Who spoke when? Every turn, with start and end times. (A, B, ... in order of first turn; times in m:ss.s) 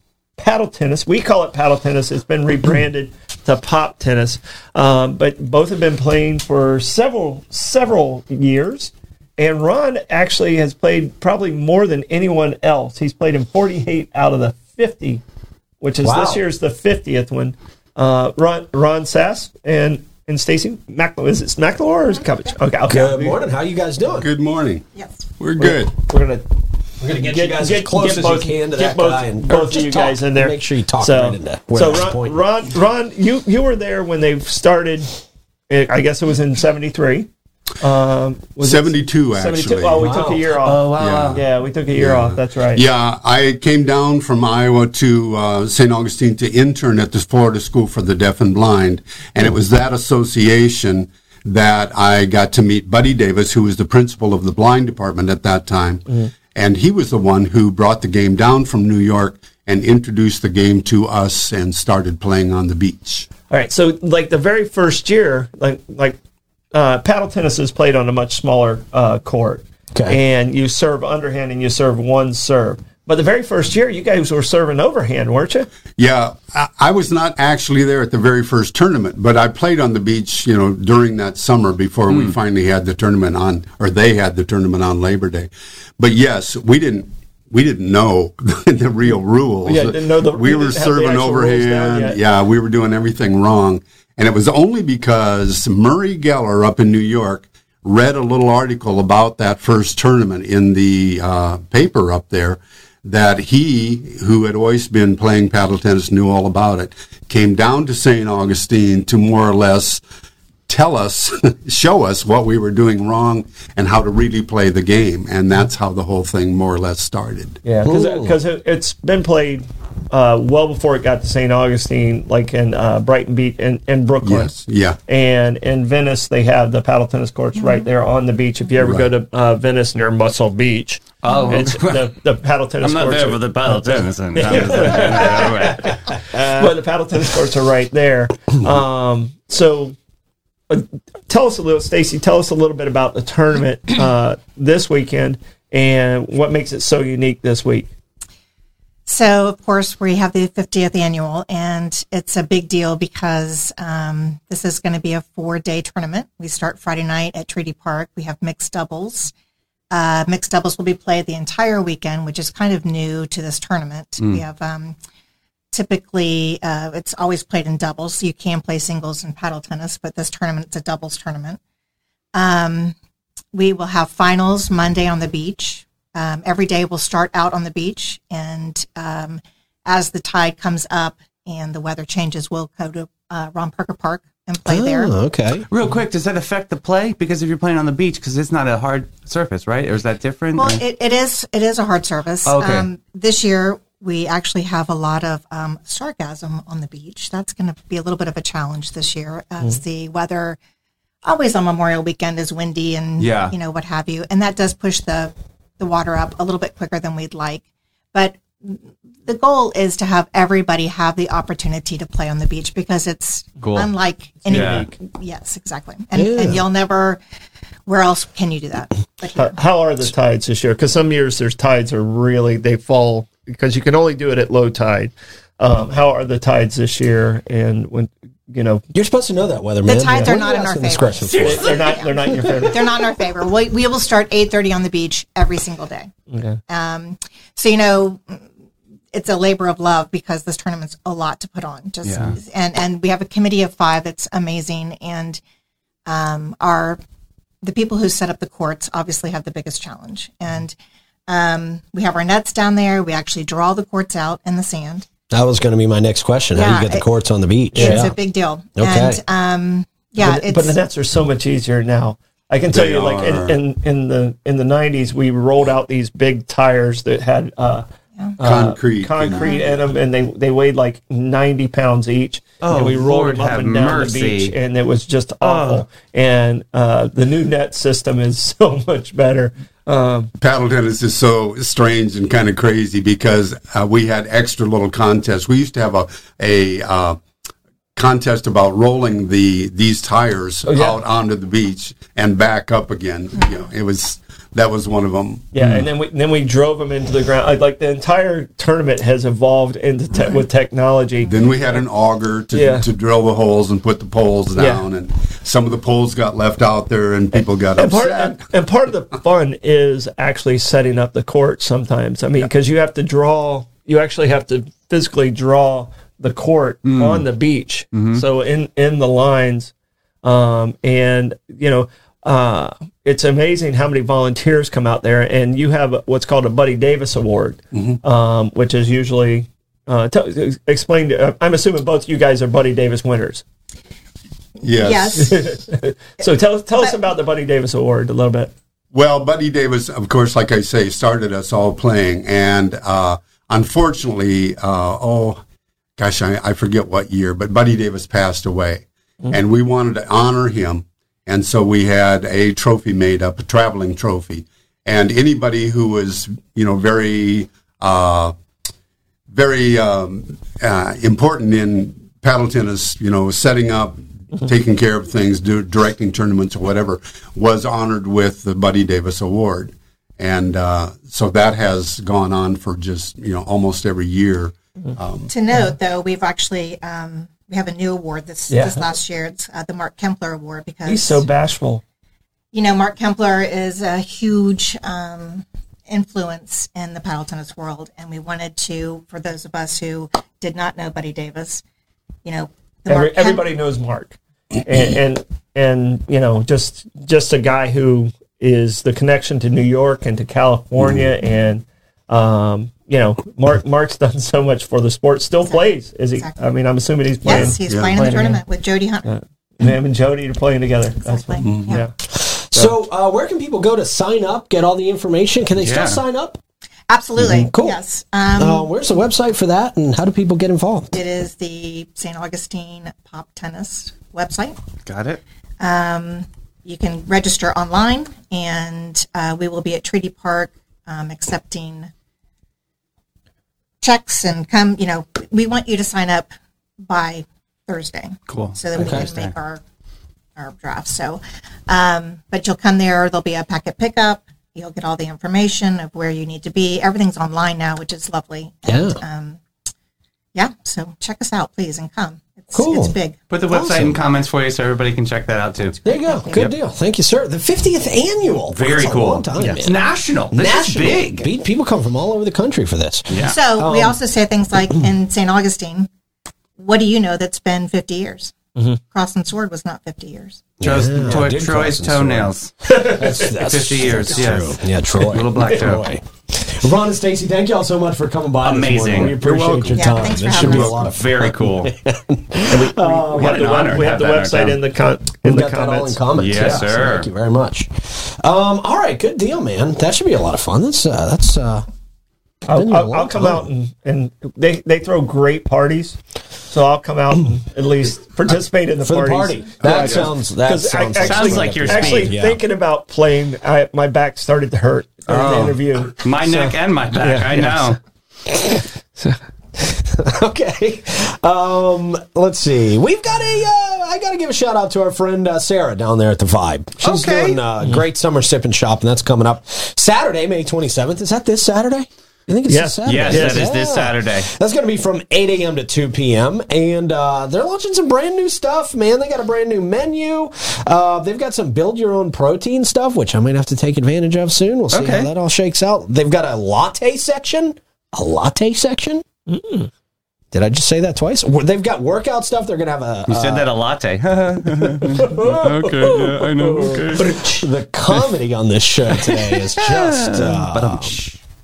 0:00.4-0:15.2 A
0:15.8-0:23.4 A
0:16.0-0:16.4 B
0:22.9-0:24.3 B
0:24.2-0:24.8 C
0:25.0-0:25.2 D
0:25.4-0:26.0 C
0:25.6-0:26.4 A
0:27.0-0:32.4 B
0:27.1-0:35.1 A
0:35.7-0:37.3 A
0:37.8-0:42.8 A
0:38.6-0:40.1 C
0:40.0-0:40.4 B
0:40.6-0:41.4 E
0:40.9-1:03.3 C
1:03.5-1:06.2 A
1:06.7-1:15.7 A
1:16.0-1:50.0 C
1:22.1-1:22.4 E
1:29.6-1:32.2 A
1:50.7-1:57.6 C
1:57.6-2:13.8 A
1:57.8-1:58.4 B
2:04.2-2:05.0 C
2:11.2-2:12.1 E
2:12.8-2:16.0 E
2:14.3-2:20.0 A
2:20.7-2:27.9 A
2:29.1-2:39.3 D
2:39.9-2:45.0 D
2:45.7-2:51.6 D
2:52.4-2:52.9 D
2:53.5-3:05.1 D
3:04.6-3:05.6 B
3:05.7-3:10.8 E
3:10.6-3:20.6 D
3:12.4-3:12.9 E
3:21.2-3:37.2 D
3:23.2-3:23.5 E
3:33.6-3:33.9 E
3:34.4-3:34.9 A
3:34.5-3:34.9 E
3:36.1-3:36.6 B
3:37.9-3:39.6 D
3:39.4-3:48.8 A
3:48.9-3:52.7 B
3:49.9-3:52.1 D
3:51.3-3:51.7 E
3:51.4-3:53.0 A
3:52.7-3:56.1 D
3:56.3-3:56.6 A
3:56.7-3:58.4 D
3:59.1-4:05.4 D
4:02.0-4:02.4 E
4:06.1-4:07.0 D
4:07.6-4:10.8 D
4:11.3-4:15.1 D
4:15.3-4:18.1 B
4:16.6-4:17.1 D
4:17.7-4:20.8 D
4:17.8-4:18.1 A
4:18.8-4:19.2 B
4:20.2-4:27.9 A
4:22.7-4:23.6 C
4:28.4-4:40.3 A
4:28.4-4:29.6 C
4:29.3-4:29.6 D
4:32.6-4:34.5 E
4:35.4-4:35.8 E
4:40.4-4:47.2 C
4:47.9-4:55.6 C
4:50.7-4:51.0 A
4:55.5-5:01.3 A
5:01.3-5:08.4 C
5:02.5-5:02.9 A
5:04.6-5:04.8 A
5:07.8-5:19.7 A
5:16.8-5:17.2 E
5:17.9-5:18.2 E
5:20.2-5:33.4 A
5:27.7-5:28.0 C
5:34.6-5:35.4 C
5:34.7-5:35.4 D
5:35.2-5:38.5 A
5:38.9-5:45.4 C
5:46.0-5:58.3 C
5:59.3-6:15.3 C
6:15.3-6:21.2 D
6:18.5-6:18.8 A
6:20.9-6:21.8 A
6:22.5-6:31.6 D
6:32.2-6:33.5 D
6:32.9-6:48.4 A
6:47.2-6:49.1 D
6:47.5-6:48.0 C
6:49.0-6:51.9 A
6:51.0-6:51.8 D
6:51.4-6:51.8 C
6:52.1-6:56.4 B
6:55.6-6:56.0 E
6:56.9-6:58.7 D
6:57.2-6:57.8 B
6:58.4-7:00.9 B
7:00.9-7:04.6 D
7:04.9-7:05.2 E
7:05.6-7:11.9 D
7:13.8-7:16.3 D
7:16.8-7:19.6 D
7:18.3-7:19.3 E
7:18.8-7:19.1 B
7:20.4-7:29.4 D
7:28.6-7:29.0 B
7:30.4-7:33.2 D
7:32.5-7:32.9 B
7:33.3-7:35.8 E
7:33.5-7:34.0 B
7:35.8-7:36.4 D
7:35.8-7:39.8 B
7:38.5-7:41.3 E
7:40.3-7:44.0 B
7:43.1-7:43.4 E
7:43.2-7:45.9 D
7:46.6-7:48.4 D
7:48.9-7:50.4 D
7:50.6-8:03.4 B
7:50.6-7:55.9 E
7:52.7-7:53.0 A
7:58.4-8:01.7 E
7:59.8-8:00.8 D
8:02.5-8:06.6 A
8:03.1-8:04.6 E
8:05.2-8:11.6 B
8:06.1-8:07.1 E
8:12.5-8:16.0 A
8:12.5-8:13.5 B
8:16.5-8:27.8 A
8:18.8-8:22.4 B
8:19.6-8:20.1 E
8:21.0-8:22.2 E
8:25.1-8:27.8 E
8:29.7-8:59.0 B
8:36.8-8:37.4 E
8:42.5-8:43.5 A
8:42.8-8:44.3 E
8:54.7-8:55.1 E
8:59.3-8:59.7 A
9:00.3-9:03.5 B
9:03.1-9:07.2 E
9:04.5-9:11.0 B
9:06.9-9:07.5 A
9:08.9-9:11.2 E